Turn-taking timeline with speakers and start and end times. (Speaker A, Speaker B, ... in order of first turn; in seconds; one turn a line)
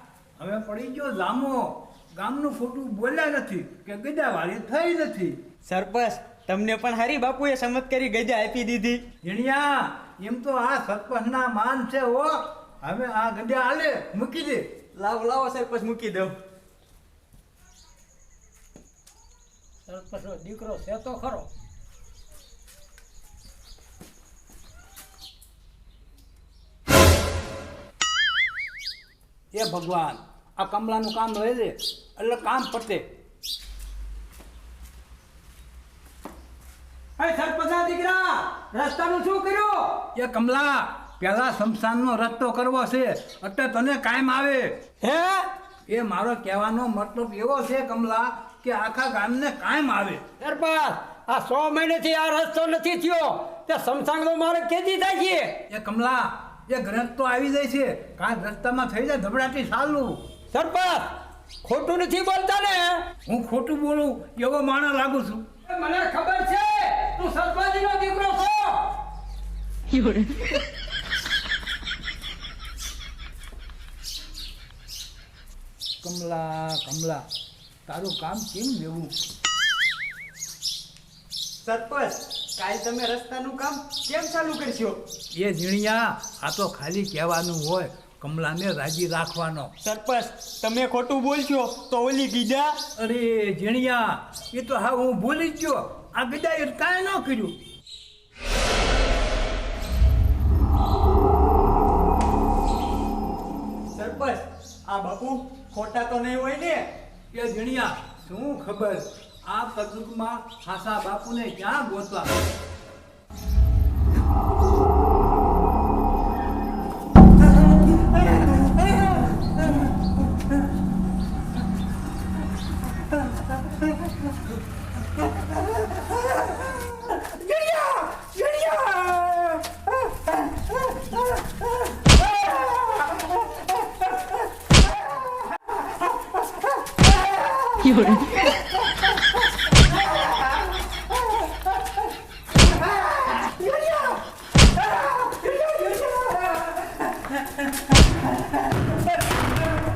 Speaker A: 0.4-5.3
Speaker B: 5.7-9.0
Speaker A: 9.2-14.6
Speaker B: 14.9-16.4
Speaker C: 19.9-21.5
Speaker A: 29.5-33.0
Speaker C: 37.2-40.0
Speaker A: 40.1-44.7
Speaker C: 45.0-45.5
Speaker A: 45.9-50.2
Speaker C: 50.4-55.5
Speaker A: 55.7-60.2
Speaker C: 60.5-63.1
Speaker A: 63.2-65.5
Speaker C: 65.7-68.8
Speaker A: 76.0-77.2
Speaker A: 77.8-79.1
Speaker B: 81.6-85.0
Speaker A: 85.3-89.7
Speaker B: 89.8-92.7
Speaker A: 93.0-97.5
Speaker B: 103.9-106.8
Speaker A: 107.3-112.3
Speaker A: 127.4-129.6
Speaker A: 137.7-138.0
Speaker A: 143.3-144.2
Speaker A: 145.0-146.7